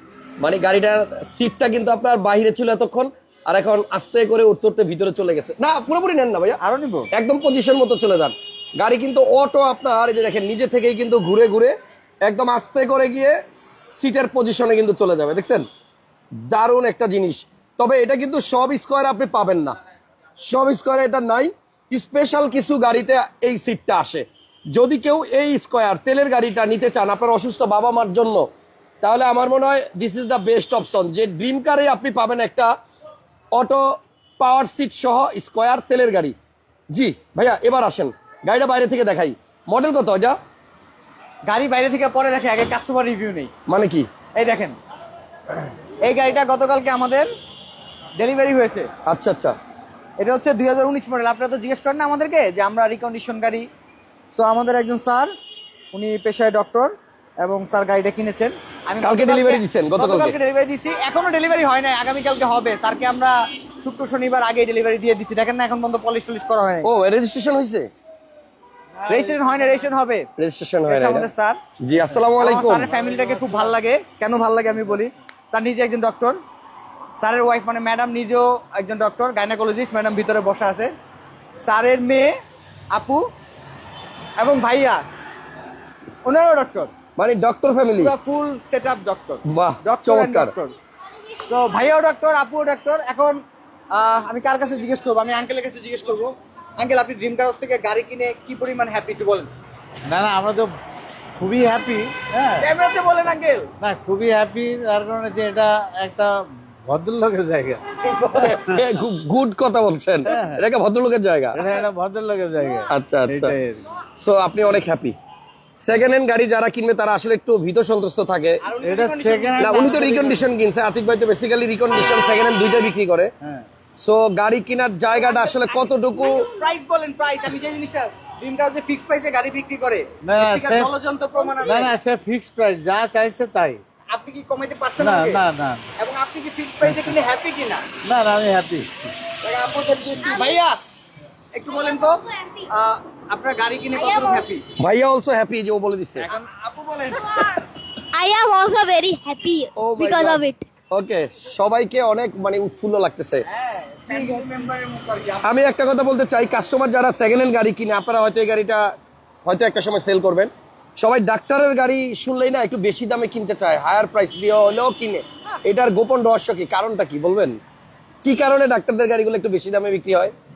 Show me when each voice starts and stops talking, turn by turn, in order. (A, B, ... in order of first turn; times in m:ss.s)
0:00.4-0:06.6 A
0:06.6-0:07.1 B
0:07.1-0:15.7 A
0:16.4-0:19.8 A
0:20.4-0:28.5 A
0:29.0-0:32.7 A
0:33.5-0:36.4 A
0:36.9-0:40.4 A
0:41.5-0:43.5 B
0:43.7-0:44.1 A
0:44.4-0:44.8 B
0:46.0-0:47.3 B
0:48.2-0:48.9 B
0:49.1-0:49.6 A
0:50.2-0:53.7 B
0:54.3-0:55.3 B
0:55.9-1:06.9 B
0:59.0-1:00.4 A
1:06.8-1:07.9 A
1:09.0-1:09.8 C
1:09.1-1:10.3 B
1:10.4-1:11.3 A
1:10.9-1:11.6 B
1:11.8-1:12.9 A
1:12.4-1:16.4 B
1:13.0-1:13.6 C
1:17.2-1:20.9 B
1:21.6-1:22.3 B
1:22.9-1:23.2 B
1:24.4-1:25.0 B
1:26.2-1:26.9 B
1:27.2-1:28.1 A
1:28.0-1:30.8 B
1:29.5-1:30.5 A
1:31.5-1:33.4 B
1:33.9-1:39.5 B
1:40.1-1:40.8 C
1:41.4-1:42.7 C
1:42.6-1:43.7 B
1:43.8-1:47.8 C
1:48.0-1:48.6 B
1:48.4-1:51.6 A
1:50.3-1:50.6 C
1:51.5-1:53.9 C
1:52.9-1:53.6 A
1:54.2-1:55.2 A
1:55.8-1:58.6 A
1:58.6-2:00.2 B
1:58.8-2:00.4 C
1:59.6-2:03.3 A
2:04.0-2:06.5 A
2:05.2-2:12.0 B
2:10.2-2:10.9 C
2:11.6-2:13.8 C
2:14.1-2:15.4 B
2:15.0-2:15.9 C
2:16.0-2:17.8 B
2:18.0-2:18.9 C
2:19.4-2:20.8 B
2:20.2-2:20.6 D
2:21.5-2:24.6 B
2:21.7-2:22.7 D
2:23.9-2:24.4 D
2:24.8-2:26.3 A
2:26.2-2:27.6 B
2:27.1-2:27.6 D
2:28.1-2:30.6 D
2:29.8-2:33.4 A
2:33.4-2:35.5 B
2:35.4-2:38.9 A
2:39.4-2:47.6 A
2:48.2-2:50.3 A